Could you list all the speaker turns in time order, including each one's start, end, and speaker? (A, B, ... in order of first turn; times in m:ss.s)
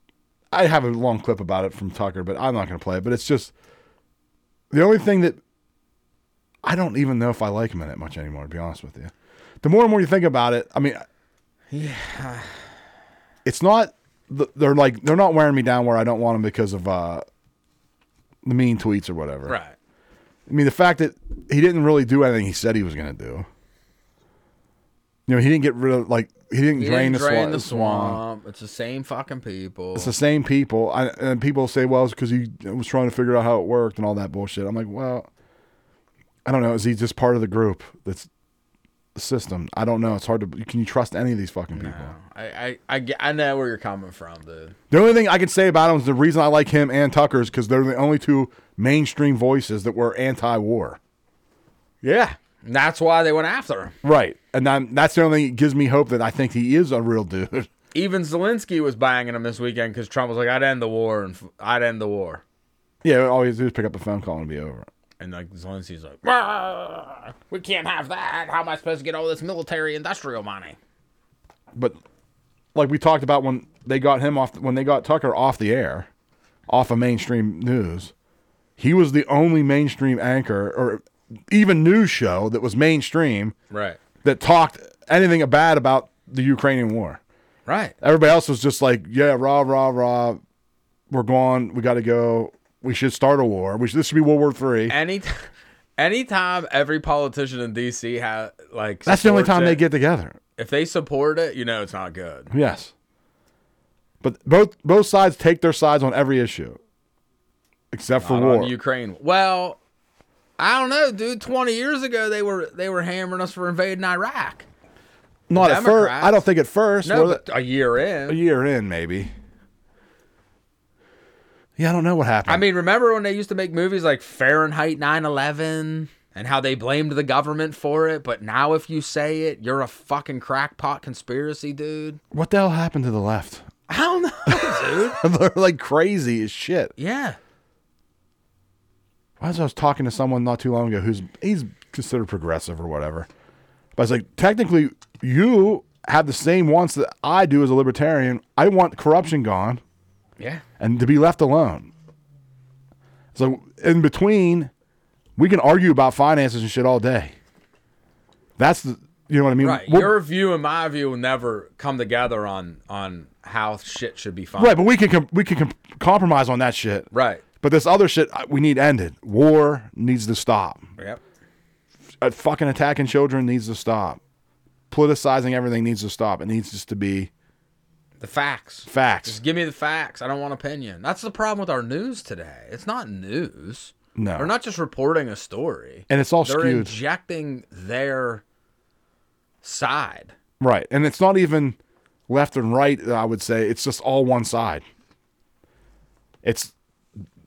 0:00.5-0:03.5 A
0:04.7-0:05.4 A
0:06.6-0:11.0 A
0:11.7-0:12.6 B
0:13.4-0:17.2 A
0:18.4-0:19.6 A
0:19.4-0:19.7 B
0:20.5-0:23.5 A
0:25.3-0:28.2 A
0:26.8-0:30.1 B
0:29.9-0:35.3 A
0:36.4-0:38.3 A
0:39.1-0:42.1 A
0:41.7-0:44.7 B
0:44.9-0:51.0 A
0:52.0-0:53.9 B
0:54.0-0:57.7 A
0:57.9-1:02.4 B
1:03.0-1:04.9 A
1:05.2-1:10.8 B
1:12.7-1:16.1 A
1:16.7-1:18.1 A
1:18.8-1:23.5 A
1:23.7-1:24.0 B
1:24.2-1:27.2 A
1:27.6-1:27.9 B
1:28.0-1:30.4 A
1:31.1-1:34.9 A
1:34.9-1:39.8 B
1:39.0-1:40.4 A
1:40.6-1:42.5 B
1:42.5-1:42.9 A
1:44.2-1:46.8 A
1:47.9-1:48.7 A
1:48.2-1:49.8 B
1:50.6-1:54.7 B
1:55.5-1:57.4 A
1:55.5-1:56.4 B
1:57.0-1:58.4 B
1:58.3-1:59.3 A
2:01.8-2:02.6 A
2:02.4-2:12.2 B
2:12.3-2:13.7 A
2:13.9-2:15.2 B
2:14.5-2:16.9 A
2:17.0-2:17.4 B
2:19.4-2:23.3 A
2:24.0-2:29.8 A
2:30.8-2:31.9 A
2:33.3-2:34.7 A
2:35.4-2:37.3 A
2:38.6-2:40.2 A
2:39.6-2:44.8 B
2:44.6-2:47.1 A
2:47.1-2:47.4 B
2:47.6-2:50.8 A
2:52.2-2:54.2 A
2:54.9-2:57.3 A
2:58.2-3:08.4 B
2:58.9-2:59.4 A
3:04.2-3:04.5 A
3:06.1-3:07.0 A
3:09.6-3:10.3 B
3:10.6-3:11.8 A
3:12.3-3:14.8 A
3:16.4-3:16.7 A